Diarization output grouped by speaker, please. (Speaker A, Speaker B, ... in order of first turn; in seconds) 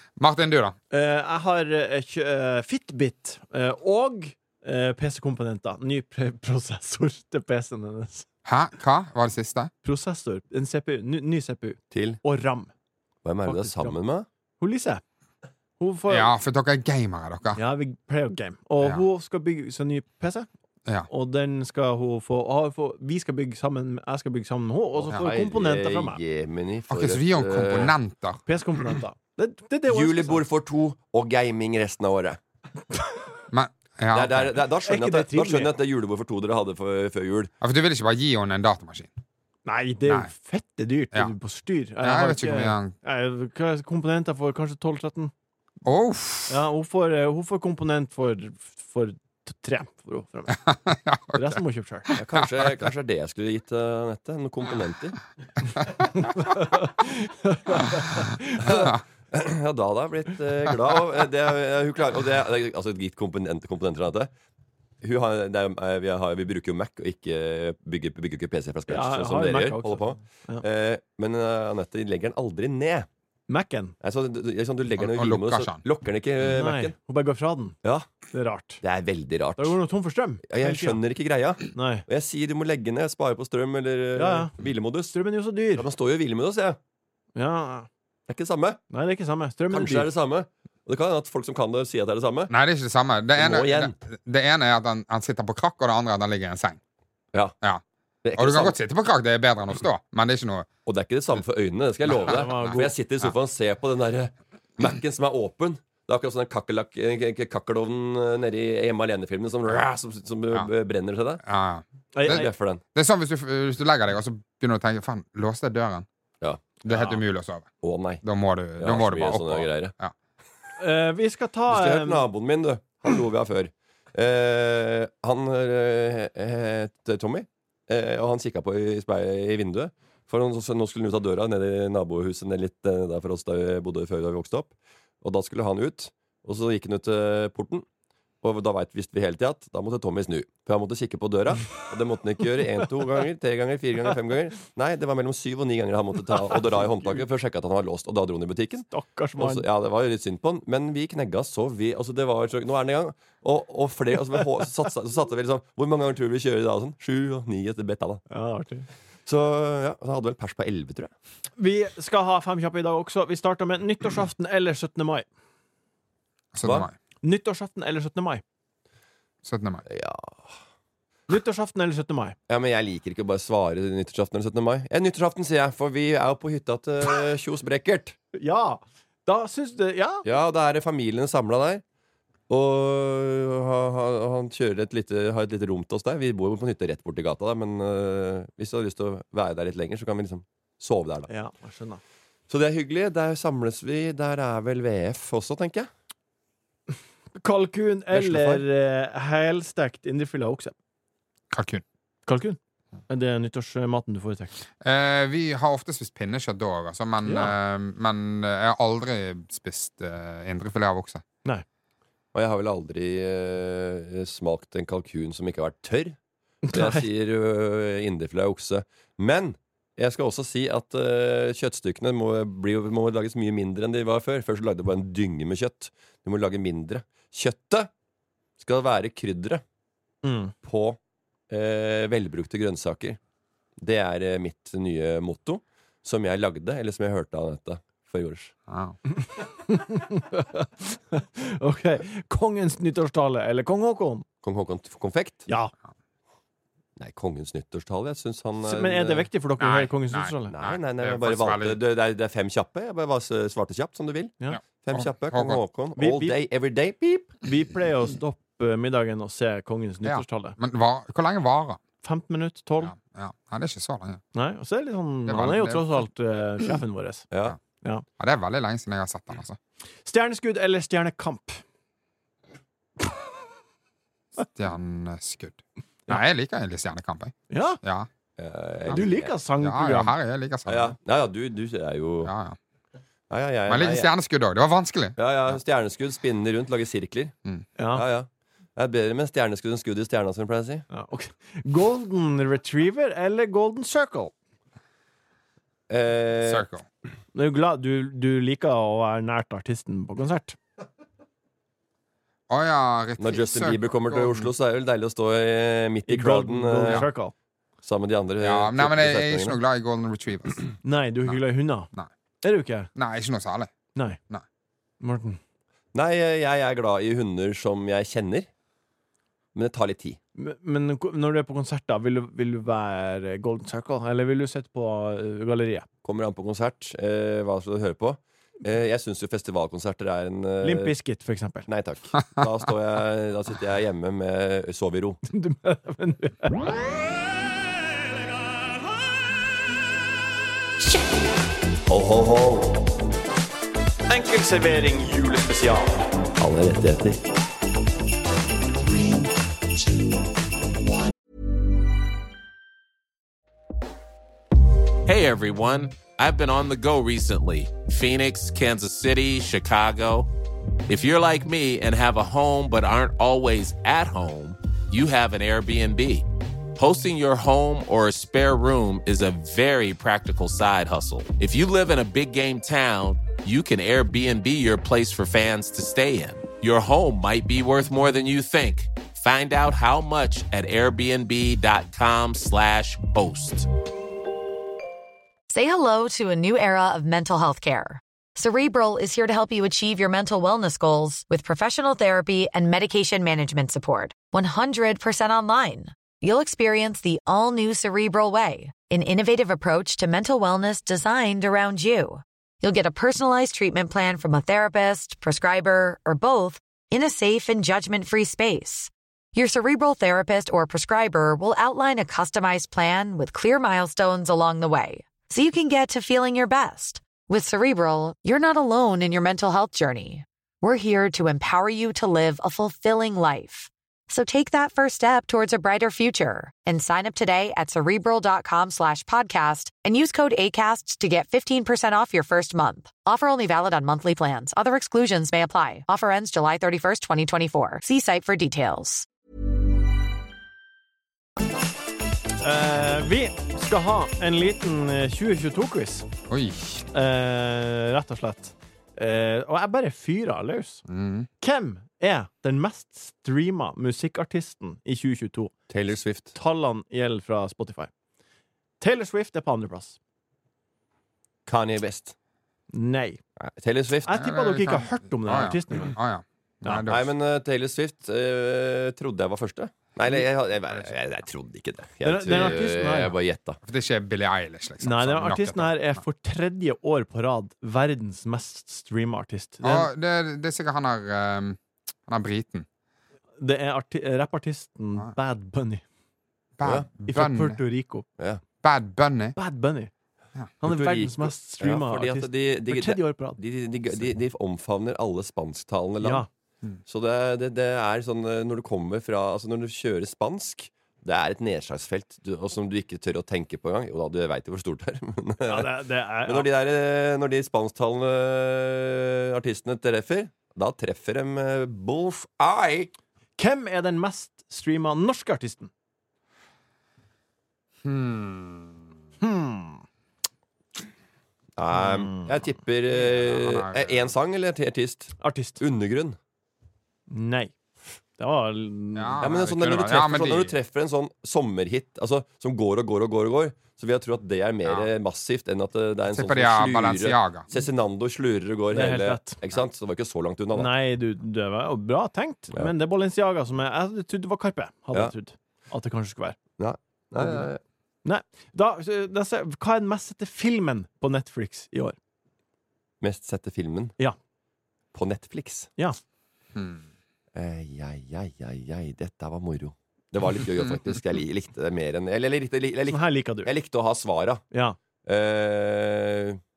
Speaker A: 0.2-0.8, 8.5-9.7, 16.1-17.6, 26.9-28.4, 33.5-34.5, 37.6-39.1, 42.0-42.9, 45.9-46.6, 50.7-52.5, 75.0-75.8, 92.5-96.8, 98.4-100.7, 102.1-103.3, 111.4-116.1, 116.8-117.7, 118.2-120.1, 166.5-166.9, 169.4-169.8, 201.5-201.8, 204.8-211.2, 238.7-238.9, 249.6-251.8, 254.9-255.6, 260.0-261.8, 262.8-264.2, 265.3-266.0, 268.2-269.6, 274.4-278.1, 279.6-280.9, 282.2-282.6, 283.7-285.2, 296.5-296.8, 302.5-304.5, 308.4-310.7, 312.9-313.7, 446.3-446.8, 450.9-451.3, 464.1-467.1, 473.6-476.0, 479.6-482.7, 486.6-487.6, 488.6-489.4, 517.8-518.7, 523.0-524.1, 529.0-530.5, 536.1-537.5, 556.5-556.8
Speaker B: 0.9-8.3, 9.8-12.7, 13.4-14.0, 14.6-15.0, 15.8-16.3, 17.6-20.5, 21.1-26.2, 28.5-30.4, 34.9-35.7, 39.7-45.3, 46.5-50.6, 51.3-52.1, 56.2-58.9, 68.9-70.6, 73.5-74.0, 76.4-77.8, 78.3-78.8, 79.6-81.0, 81.7-82.0, 84.2-84.5, 85.1-85.9, 87.4-87.9, 88.9-90.1, 102.1-102.9, 112.1-112.5, 120.8-122.3, 148.9-149.7, 158.3-158.9, 161.6-165.3, 167.2-168.4, 171.3-172.4, 178.3-180.2, 191.3-192.0, 197.4-200.8, 202.3-202.6, 203.1-204.6, 207.2-207.6, 216.7-217.1, 230.2-230.5, 239.4-244.3, 245.5-245.7, 248.6-250.5, 256.0-256.4, 257.4-260.6, 262.0-262.9, 264.4-267.3, 270.1-271.6, 277.5-277.8, 278.9-280.1, 287.8-288.1, 290.9-294.3, 297.3-300.6, 306.1-307.3, 310.8-311.9, 312.4-312.9, 315.0-315.4, 320.4-325.9, 330.6-331.7, 335.3-336.6, 344.1-346.0, 442.4-446.1, 446.9-450.9, 451.4-455.5, 456.4-457.9, 458.8-460.0, 462.7-463.2, 464.1-466.0, 472.0-473.2, 474.8-479.9, 483.4-485.8, 487.1-488.1, 489.4-489.9, 490.6-493.4, 496.0-496.3, 505.5-506.5, 513.4-515.7, 519.2-519.8, 521.9-522.3, 525.2-525.6, 527.1-527.5, 528.2-529.3, 538.7-539.4, 540.5-546.4, 548.0-552.0, 562.9-563.5, 564.5-564.8
Speaker C: 11.9-12.2, 13.2-14.3, 25.0-27.9, 29.9-32.4, 34.1-37.5, 52.1-55.2, 58.6-64.3, 65.0-73.1, 74.0-76.9, 77.8-78.1, 78.8-79.8, 80.5-85.2, 85.8-86.8, 88.3-88.8, 89.7-92.5, 93.4-94.0, 98.2-98.8, 100.9-111.4, 112.3-112.8, 116.4-117.2, 117.8-118.2, 118.8-120.0, 121.7-137.9, 138.4-158.2, 159.3-161.1, 169.9-170.6, 172.5-178.2, 180.2-181.8, 182.5-191.3, 192.5-195.9, 198.1-198.7, 212.3-216.2, 216.7-227.9, 228.6-229.6, 230.6-231.0, 231.5-233.2, 233.8-238.5, 244.4-245.5, 247.0-249.3, 250.5-257.3, 267.3-267.6, 278.4-279.3, 280.7-282.3, 283.3-284.1, 285.2-287.3, 287.9-290.9, 295.9-296.7, 303.2-307.1, 307.8-309.6, 315.9-318.5, 319.6-320.2, 326.0-330.9, 331.7-335.2, 341.9-342.9, 346.4-347.2, 455.7-456.4, 461.5-462.1, 463.4-464.2, 466.9-473.6, 486.6-486.9, 488.2-488.4, 490.6-496.3, 496.9-512.9, 521.6-526.2, 529.2-540.7, 546.6-547.6, 553.0-554.0, 554.9-555.7, 557.4-564.4, 565.0-566.4
Speaker D: 355.1-360.3, 360.9-383.7
Speaker E: 385.5-439.1